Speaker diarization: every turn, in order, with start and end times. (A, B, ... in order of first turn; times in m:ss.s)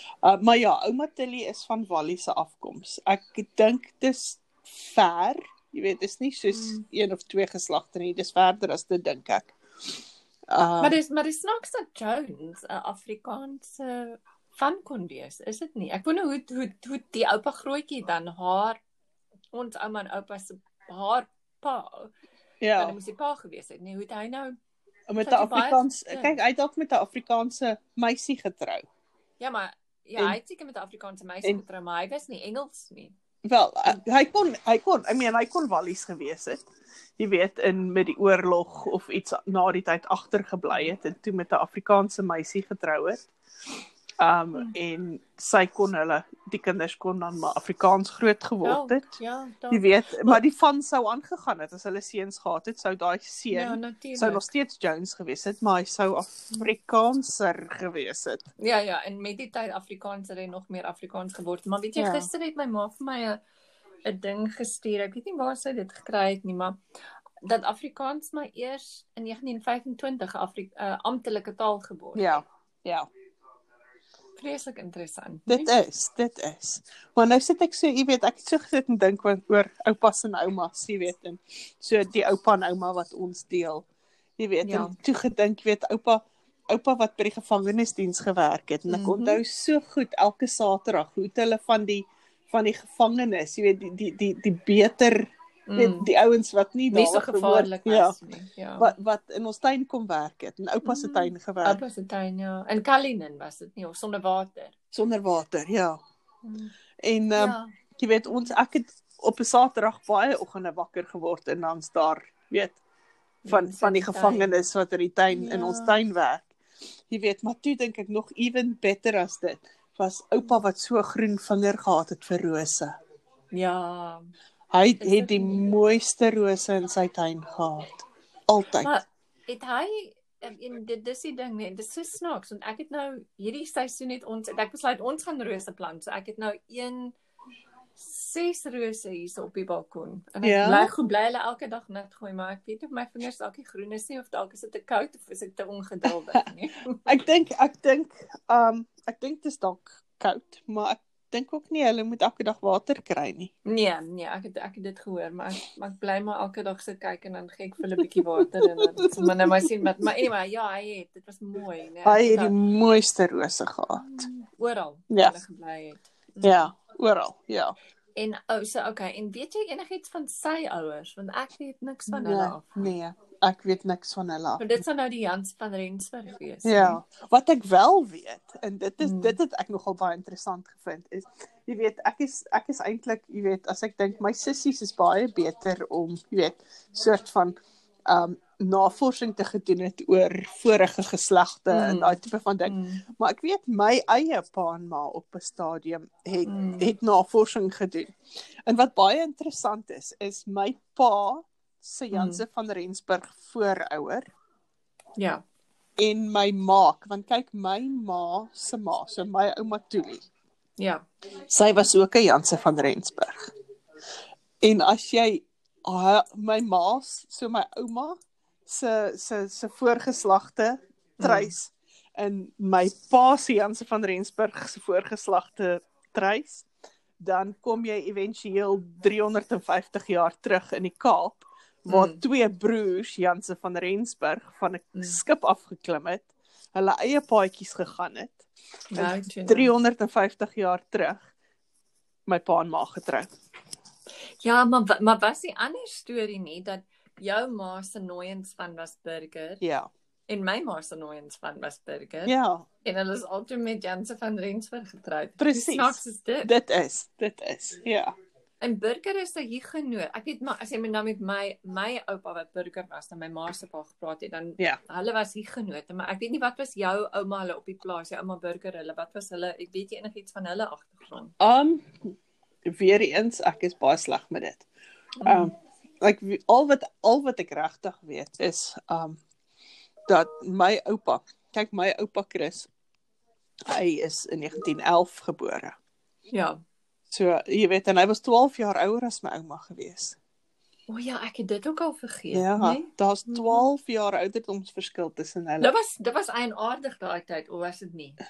0:00.2-0:09.6 A
0:06.5-0:06.8 B
0:10.5-0:11.0 A
0:10.8-0:18.8 B
0:19.5-0:22.1 B
0:22.6-0:23.0 A
0:22.7-0:24.6 B
0:25.1-0:28.8 A
0:25.2-0:26.4 B
0:29.4-0:33.2 B
0:33.4-0:36.6 A
0:37.2-0:43.3 A
0:44.2-0:49.0 A
0:48.6-0:50.4 B
0:49.7-0:58.4 A
0:53.5-0:54.4 B
0:58.6-1:03.4 B
1:02.0-1:02.3 A
1:04.0-1:06.8 B
1:07.4-1:12.4 B
1:12.2-1:13.1 A
1:14.4-1:15.7 B
1:15.5-1:23.8 A
1:24.4-1:38.2 A
1:24.6-1:25.0 B
1:28.9-1:29.4 B
1:35.7-1:36.1 B
1:36.9-1:38.9 B
1:38.8-1:41.8 A
1:40.8-1:44.7 B
1:44.9-1:46.0 A
1:46.4-1:46.7 B
1:47.0-1:52.8 A
1:47.3-1:47.7 B
1:53.4-1:54.6 B
1:53.5-1:56.5 A
1:55.3-1:56.0 B
1:57.1-2:02.9 A
2:03.5-2:04.3 B
2:04.7-2:08.9 A
2:05.0-2:05.6 B
2:08.8-2:17.2 B
2:18.0-2:27.0 B
2:20.4-2:20.9 A
2:27.0-2:33.5 A
2:33.6-2:42.5 B
2:38.0-2:39.6 A
2:42.0-2:44.2 A
2:44.0-2:46.7 B
2:45.1-2:45.4 A
2:46.4-2:47.7 A
2:48.2-2:52.9 B
2:52.1-2:54.7 A
2:54.6-2:57.0 B
2:56.6-3:18.1 A
2:59.0-2:59.4 B
3:11.7-3:13.0 B
3:16.4-3:16.9 B
3:18.6-3:24.3 A
3:22.1-3:22.4 B
3:25.2-3:25.4 B
3:26.0-3:30.2 A
3:30.8-3:31.0 B
3:31.5-3:33.5 A
3:34.6-3:46.7 A
3:41.2-3:41.5 B
3:47.2-4:01.3 A
3:51.9-3:52.2 B
3:58.9-3:59.7 B
4:02.3-4:03.3 A
4:04.4-4:09.6 B
4:09.6-4:09.9 A
4:10.3-4:16.5 B
4:12.2-4:12.6 A
4:15.4-4:18.1 A
4:18.6-4:31.3 B
4:31.4-4:32.0 A
4:32.7-4:34.7 A
4:35.2-4:35.5 B
4:35.2-4:39.2 A
4:40.1-4:42.7 A
4:43.7-4:45.8 A
4:46.3-4:46.6 B
4:47.1-4:50.2 A
4:50.9-4:53.7 B
4:52.3-4:55.7 A
4:55.6-4:58.2 B